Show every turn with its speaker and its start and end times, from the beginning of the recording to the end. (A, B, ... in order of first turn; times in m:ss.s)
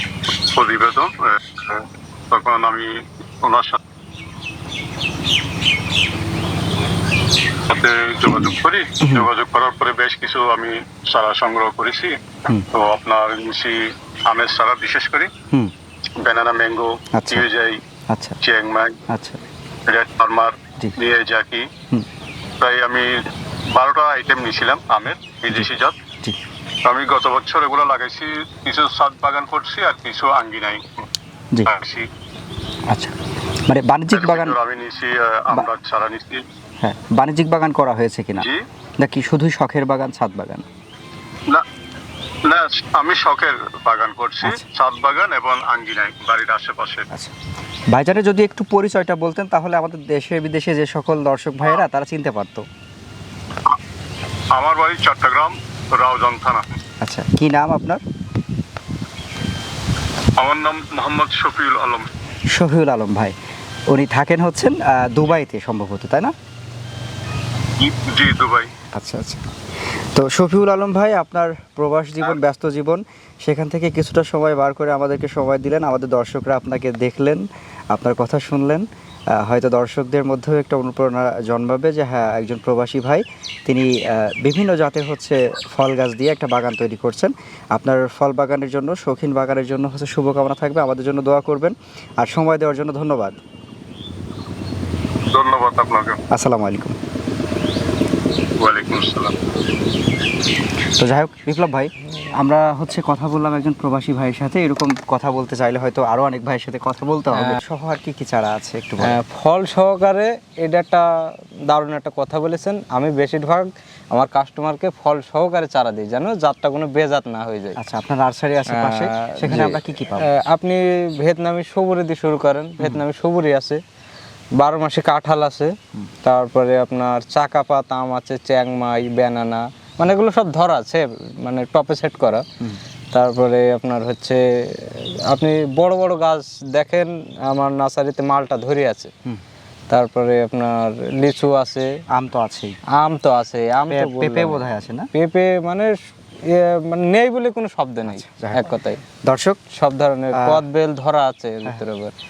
0:00.5-0:03.8 A
0:07.7-0:15.3 A
0:09.0-0:09.3 B
0:16.2-0:17.8 A
0:17.1-0:17.5 B
0:18.1-0:18.4 B
0:18.4-0:19.0 A
0:19.1-0:19.4 B
0:19.9-0:21.7 A
0:22.6-0:26.0 A
0:26.8-0:31.0 A
0:31.6-0:32.1 A
0:32.9-0:33.2 B
0:33.7-0:34.6 B
0:34.1-0:36.4 A
0:36.8-0:38.5 B
0:39.0-0:40.6 B
0:42.4-0:47.1 A
0:47.9-0:52.6 B
0:54.5-0:56.7 A
0:57.0-0:58.0 B
1:00.4-1:02.1 A
1:02.5-1:03.4 B
1:03.9-1:06.3 B
1:07.8-1:08.7 A
1:08.9-1:09.4 B
1:10.2-1:33.4 B
1:35.3-1:36.2 A
1:36.3-1:37.0 B
1:38.6-1:39.3 A
1:41.0-1:49.2 B
1:47.3-1:47.6 C
1:49.0-1:57.8 C
1:57.8-2:00.3 B
1:58.7-2:03.8 C
2:04.6-2:05.7 C
2:06.2-2:12.4 C
2:13.1-2:19.1 C
2:19.9-2:21.9 C
2:22.1-2:22.8 B
2:23.0-2:29.0 C
2:23.9-2:25.1 B
2:28.1-2:28.7 B
2:29.2-2:29.6 B
2:29.7-2:32.1 C
2:30.3-2:30.6 B